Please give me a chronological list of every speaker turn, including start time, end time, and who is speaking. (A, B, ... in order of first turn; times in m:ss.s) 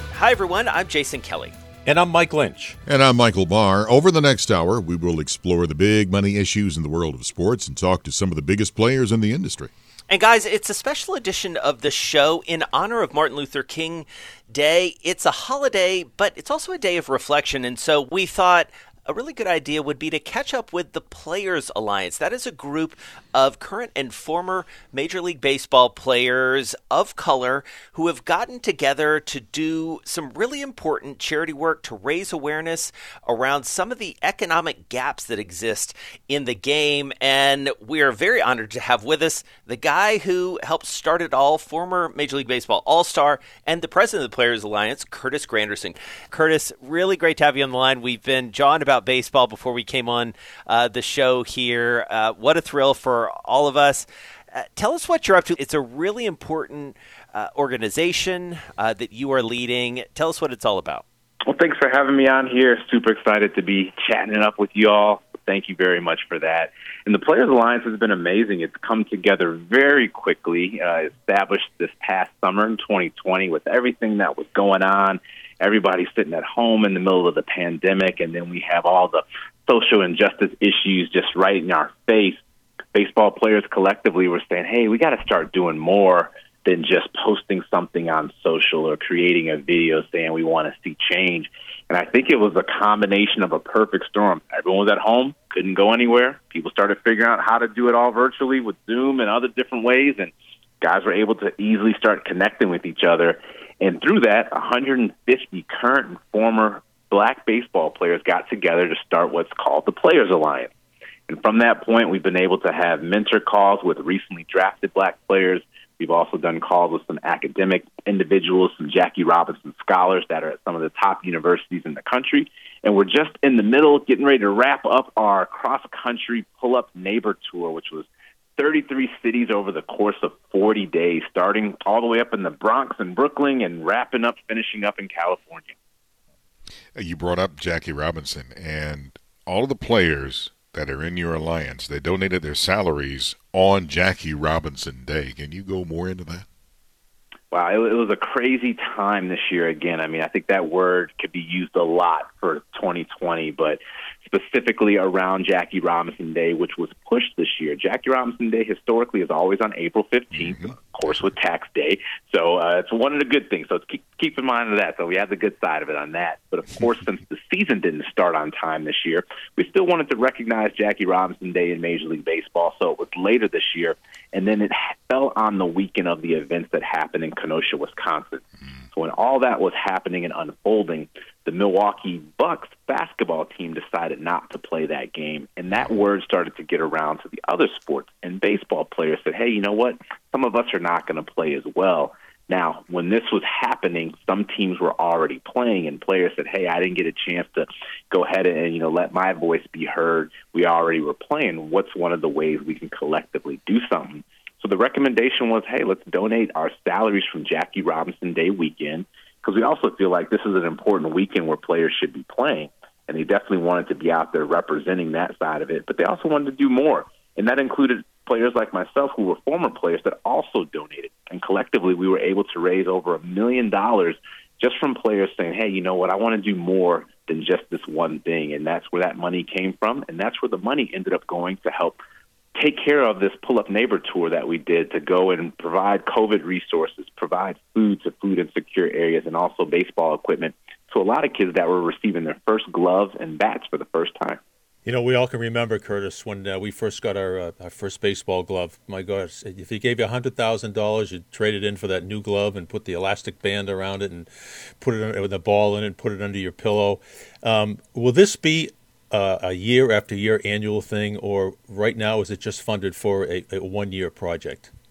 0:00.1-0:01.5 A
0:01.8-0:02.8 B
0:02.8-0:09.7 C
0:10.1-1:01.0 A
1:01.4-1:22.4 D
1:22.9-1:50.7 D
1:51.3-2:15.7 D
2:16.9-2:26.4 C
2:27.5-3:52.0 D
2:40.4-2:40.7 C
3:52.5-4:04.4 D
4:04.8-4:14.3 B
4:14.8-4:24.7 B